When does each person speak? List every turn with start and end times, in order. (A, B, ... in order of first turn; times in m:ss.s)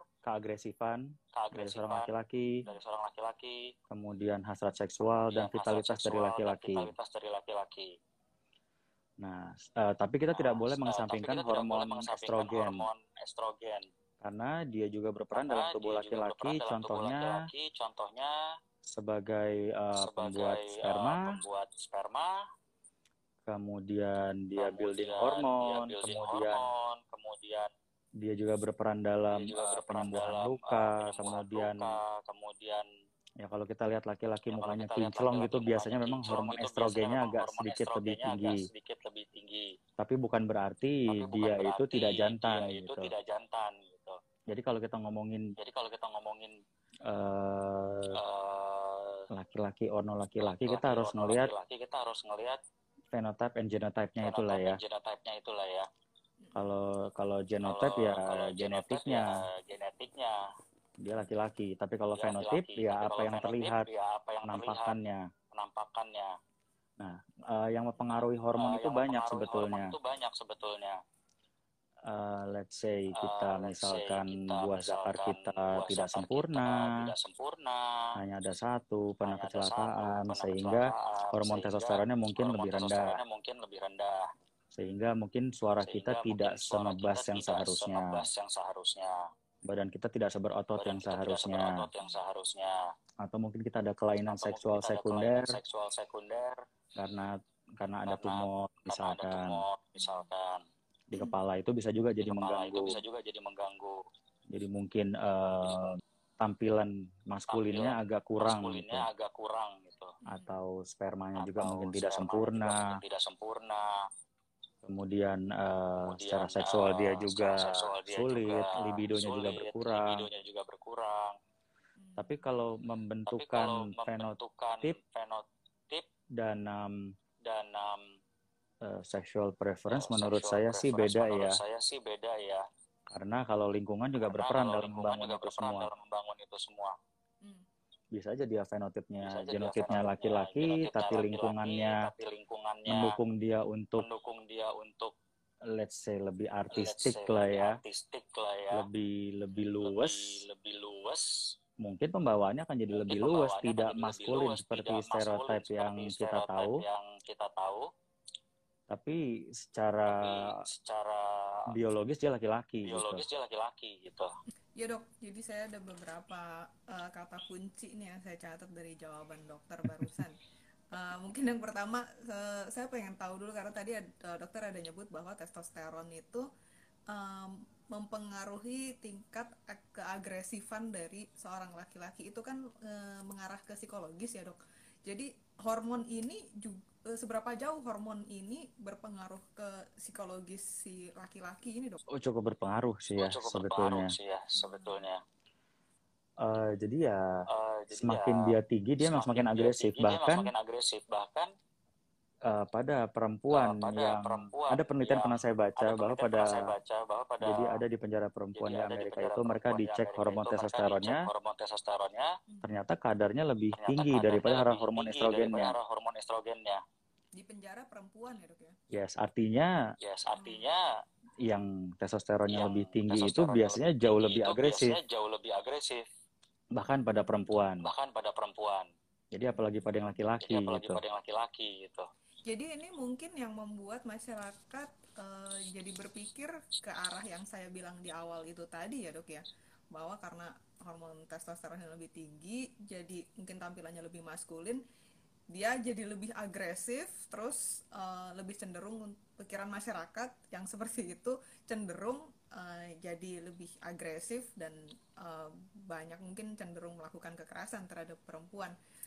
0:00.2-0:02.6 A
0:01.3-0:02.1 B
0:02.7-0:03.7 B
0:03.9-0:06.9 A
0:05.3-0:08.0 B
0:09.2-0:12.9 A
0:10.3-0:13.9 B
0:14.2-0:17.5 A
0:15.4-0:18.3 B
0:18.8-0:21.4 A
0:19.9-0:22.4 B
0:23.5-0:26.6 A
0:24.6-0:27.7 B
0:28.2-0:32.0 A
0:29.3-0:32.9 B
0:33.4-0:38.6 A
0:34.5-0:39.8 B
0:40.0-0:43.1 A
0:41.1-0:44.2 B
0:44.5-0:45.5 A
0:45.6-0:46.6 B
0:47.0-0:48.2 A
0:48.1-0:49.3 B
0:49.3-0:51.5 A
0:50.4-0:52.6 B
0:53.1-0:54.8 A
0:54.2-0:55.9 B
0:56.5-0:59.2 A
0:57.6-1:00.4 B
1:01.0-1:03.9 A
1:02.1-1:05.0 B
1:04.4-1:05.2 A
1:05.5-1:06.4 B
1:07.0-1:10.0 A
1:08.6-1:11.0 B
1:12.1-1:17.0 A
1:13.2-1:18.2 B
1:18.2-1:23.2 A
1:19.2-1:24.3 B
1:24.7-1:28.2 A
1:25.8-1:29.3 B
1:29.7-1:31.8 A
1:30.8-1:32.8 B
1:33.2-1:35.6 A
1:34.2-1:36.6 B
1:37.0-1:39.6 A
1:38.1-1:40.6 B
1:40.0-1:40.3 C
1:41.1-1:43.0 A
1:42.2-1:44.0 B
1:44.5-1:49.1 A
1:47.5-1:50.2 B
1:50.2-1:50.6 C
1:50.3-1:53.0 A
1:51.4-1:54.0 B
1:54.8-2:00.3 A
1:56.0-2:01.4 B
2:02.0-2:02.7 C
2:02.2-2:05.0 A
2:03.3-2:06.1 B
2:06.4-2:07.1 A
2:07.4-2:08.2 B
2:08.8-2:11.6 A
2:09.9-2:12.6 B
2:13.1-2:15.9 A
2:14.2-2:17.0 B
2:18.1-2:22.1 A
2:19.2-2:23.1 B
2:22.9-2:24.0 A
2:24.0-2:25.1 B
2:25.7-2:27.8 A
2:26.7-2:28.9 B
2:28.7-2:30.4 A
2:29.8-2:31.3 B
2:31.8-2:36.8 A
2:32.9-2:37.9 B
2:38.9-2:40.6 A
2:40.0-2:41.6 B
2:41.7-2:43.2 A
2:42.8-2:44.3 B
2:44.8-2:50.4 C
2:50.9-2:56.4 C
2:57.1-3:12.0 C
3:12.1-3:14.1 A
3:13.2-3:15.2 B
3:14.5-3:15.0 C
3:16.4-3:17.2 A
3:17.5-3:21.5 B
3:17.9-3:20.5 A
3:22.5-3:26.7 A
3:23.5-3:27.8 B
3:27.4-3:31.3 A
3:28.6-3:32.3 B
3:32.6-3:35.8 A
3:33.8-3:36.8 B
3:37.4-3:38.8 C
3:38.9-3:39.8 A
3:40.0-3:40.9 B
3:40.3-3:40.7 C
3:41.4-3:45.0 A
3:42.5-3:46.0 B
3:46.8-3:47.9 A
3:47.8-3:48.9 B
3:49.3-3:51.0 A
3:50.4-3:52.1 B
3:52.5-4:04.8 C
4:05.5-4:18.7 C